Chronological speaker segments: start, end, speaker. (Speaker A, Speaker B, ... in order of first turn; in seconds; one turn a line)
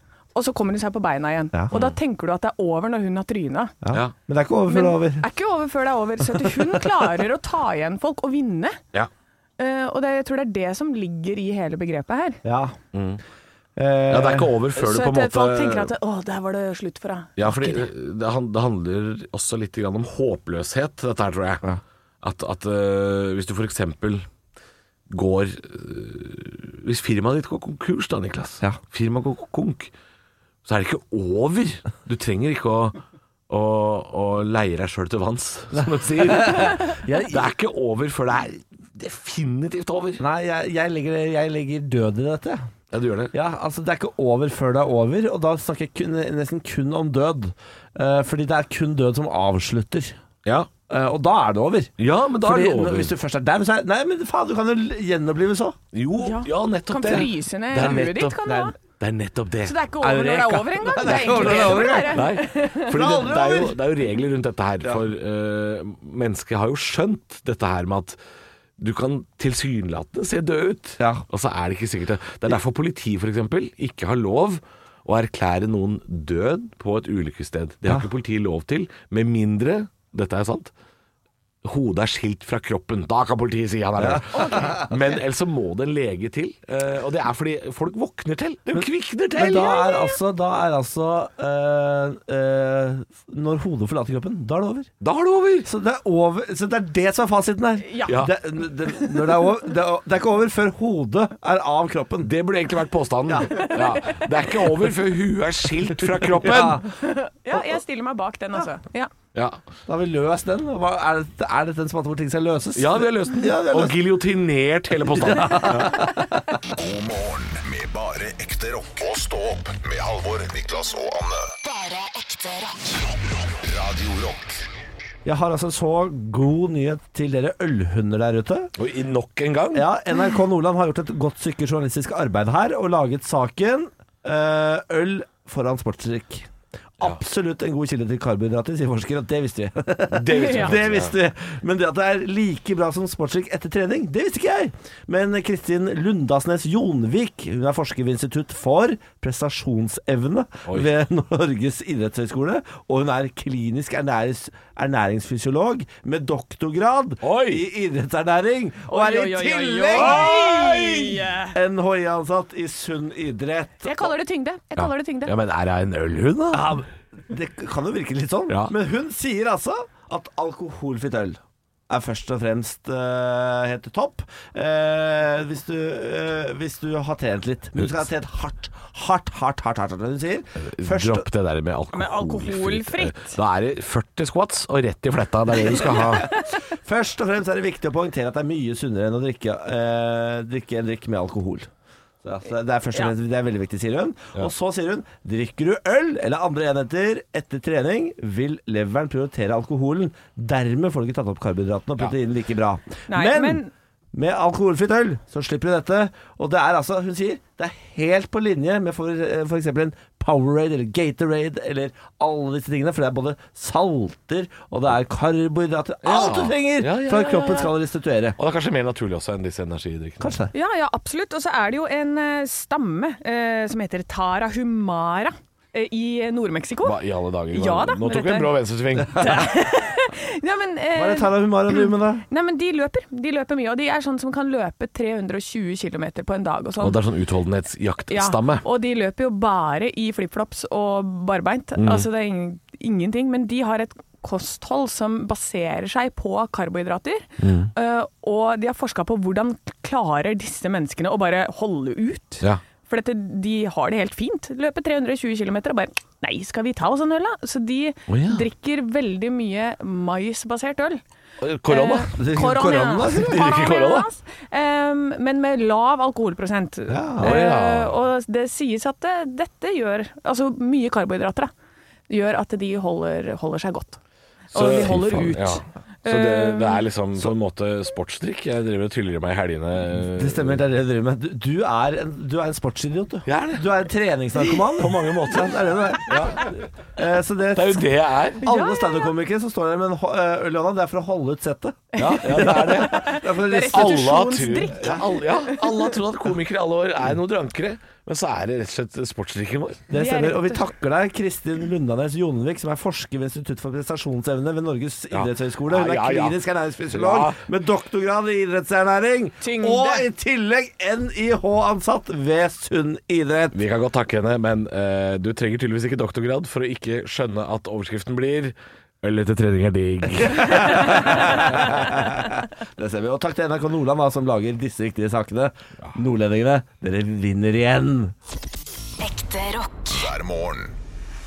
Speaker A: 0.3-3.7
Speaker B: 3.8-5.2
Speaker A: 4.7-8.8
Speaker A: 9.6-12.4
Speaker B: 12.4-12.8
Speaker C: 12.9-13.2
Speaker B: 13.8-14.6
Speaker C: 14.1-15.9
Speaker A: 14.8-17.8
Speaker C: 17.4-21.6
Speaker C: 22.2-24.2
Speaker C: 25.1-29.9
Speaker C: 30.6-33.0
Speaker C: 33.5-40.2
Speaker B: 36.2-37.4
Speaker B: 40.2-42.7
Speaker C: 42.9-43.3
Speaker B: 43.3-50.2
Speaker C: 50.4-50.7
Speaker B: 50.9-55.8
Speaker C: 52.0-53.1
Speaker C: 55.9-59.8
Speaker A: 56.2-58.7
Speaker B: 58.4-58.7
Speaker A: 59.6-63.0
Speaker B: 60.0-63.8
Speaker C: 61.0-68.2
Speaker C: 68.8-80.7
Speaker B: 71.0-71.2
Speaker C: 81.6-89.9
Speaker B: 84.0-85.0
Speaker A: 84.3-84.8
Speaker B: 88.7-94.9
Speaker A: 89.6-90.1
Speaker C: 95.0-95.7
Speaker B: 95.6-102.3
Speaker A: 97.8-98.2
Speaker C: 98.1-98.3
Speaker C: 102.2-106.8
Speaker B: 103.3-103.7
Speaker A: 103.5-104.2
Speaker B: 106.2-106.9
Speaker A: 107.0-109.1
Speaker C: 109.3-109.6
Speaker B: 109.9-114.0
Speaker C: 112.7-116.1
Speaker B: 115.1-116.4
Speaker D: 116.7-121.5
Speaker E: 121.6-123.0
Speaker D: 123.3-124.6
Speaker B: 125.2-128.7
Speaker C: 128.8-129.9
Speaker B: 129.7-164.1
Speaker C: 140.1-141.2
Speaker A: 140.3-140.7
Speaker C: 150.7-150.9
Speaker C: 157.2-157.6
Speaker A: 158.9-161.5
Speaker C: 160.0-160.4
Speaker A: 163.8-165.3
Speaker C: 164.8-166.8
Speaker B: 166.5-171.4
Speaker B: 171.9-181.2
Speaker C: 180.6-186.3
Speaker A: 181.9-183.4
Speaker B: 185.9-191.7
Speaker B: 192.2-203.6
Speaker A: 203.1-203.7
Speaker B: 204.1-218.4
Speaker C: 216.0-217.7
Speaker C: 218.4-220.4
Speaker B: 220.2-220.5
Speaker A: 220.5-227.0
Speaker C: 226.8-229.5
Speaker A: 227.5-228.6
Speaker A: 229.1-237.0
Speaker B: 230.9-232.2
Speaker C: 236.8-238.6
Speaker A: 238.1-261.0
Speaker C: 241.8-242.1
Speaker C: 247.4-247.7
Speaker C: 258.1-258.4
Speaker C: 261.4-262.1
Speaker A: 261.7-271.5
Speaker B: 262.1-263.6
Speaker C: 263.3-264.1
Speaker B: 266.9-267.4
Speaker C: 267.2-267.9
Speaker A: 272.1-274.0
Speaker A: 274.5-276.8
Speaker C: 274.5-280.6
Speaker B: 280.0-287.9
Speaker C: 283.2-283.9
Speaker C: 284.7-286.5
Speaker C: 287.5-288.4
Speaker B: 288.4-294.2
Speaker A: 288.4-289.1
Speaker A: 291.9-295.9
Speaker C: 292.0-299.9
Speaker B: 299.9-313.6
Speaker A: 299.9-300.6
Speaker C: 305.1-306.4
Speaker C: 306.9-307.4
Speaker A: 309.4-310.0
Speaker C: 313.5-321.9
Speaker B: 320.3-328.1
Speaker E: 329.0-330.0
Speaker D: 329.9-330.8